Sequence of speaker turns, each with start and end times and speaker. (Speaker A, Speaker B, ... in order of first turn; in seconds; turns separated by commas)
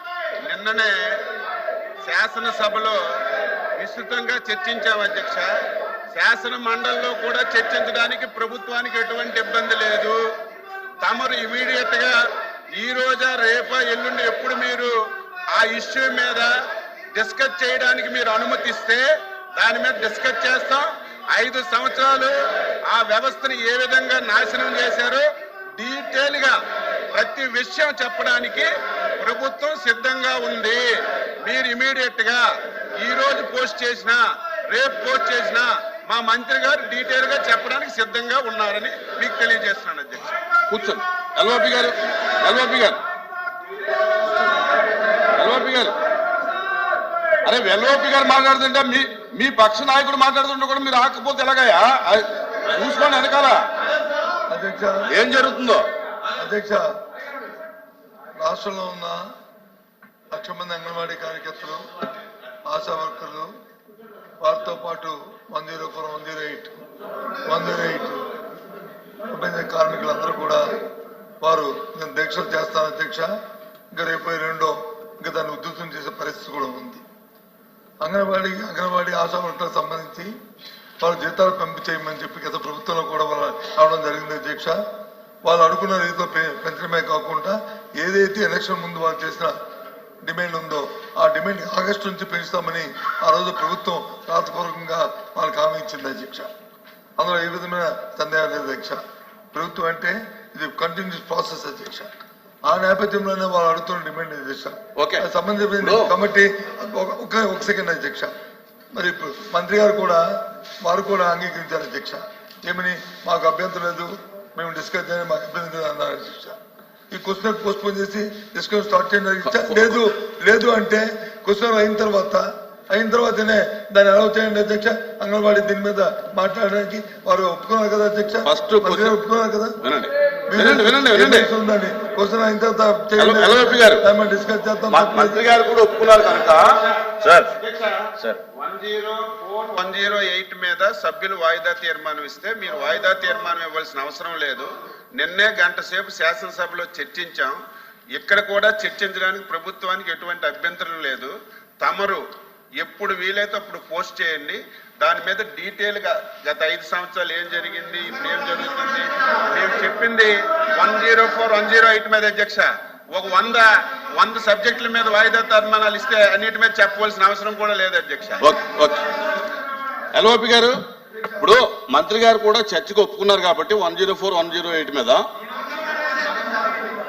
Speaker A: 0.4-1.1, Speaker A: 2.0-3.0, Speaker A: 3.8-5.5, Speaker A: 6.1-10.2, Speaker A: 11.0-12.2, Speaker A: 12.8-14.9, Speaker A: 15.5-16.5, Speaker A: 17.2-19.0, Speaker A: 19.6-22.4, Speaker A: 22.9-26.6, Speaker A: 27.1-30.9, Speaker A: 31.4-32.4, Speaker A: 33.0-40.4, Speaker B: 40.7-43.0, Speaker B: 45.4-45.9, Speaker B: 47.4-53.6, Speaker C: 54.5-55.1, Speaker B: 55.1-55.9, Speaker C: 56.4-56.9, Speaker C: 58.4-59.2, Speaker C: 60.3-61.9, Speaker C: 62.7-63.5, Speaker C: 64.4-66.8, Speaker C: 67.5-68.2, Speaker C: 69.3-70.8, Speaker C: 71.4-73.3, Speaker C: 73.9-77.0, Speaker C: 78.0-80.3, Speaker C: 81.0-84.8, Speaker C: 85.4-89.5, Speaker C: 90.2-96.5, Speaker C: 97.2-99.0, Speaker C: 99.5-102.1, Speaker C: 102.7-108.3, Speaker B: 105.0-105.3, Speaker B: 105.8-106.1, Speaker C: 108.9-110.2, Speaker C: 110.8-116.6, Speaker C: 117.1-129.8, Speaker B: 119.5-119.9, Speaker B: 128.4-129.2, Speaker B: 129.8-131.5, Speaker C: 130.5-135.4, Speaker B: 133.2-134.1, Speaker B: 134.9-137.5, Speaker A: 137.6-147.6, Speaker A: 148.1-152.2, Speaker A: 152.8-168.4, Speaker B: 168.4-169.2, Speaker B: 170.1-170.8, Speaker B: 171.4-175.2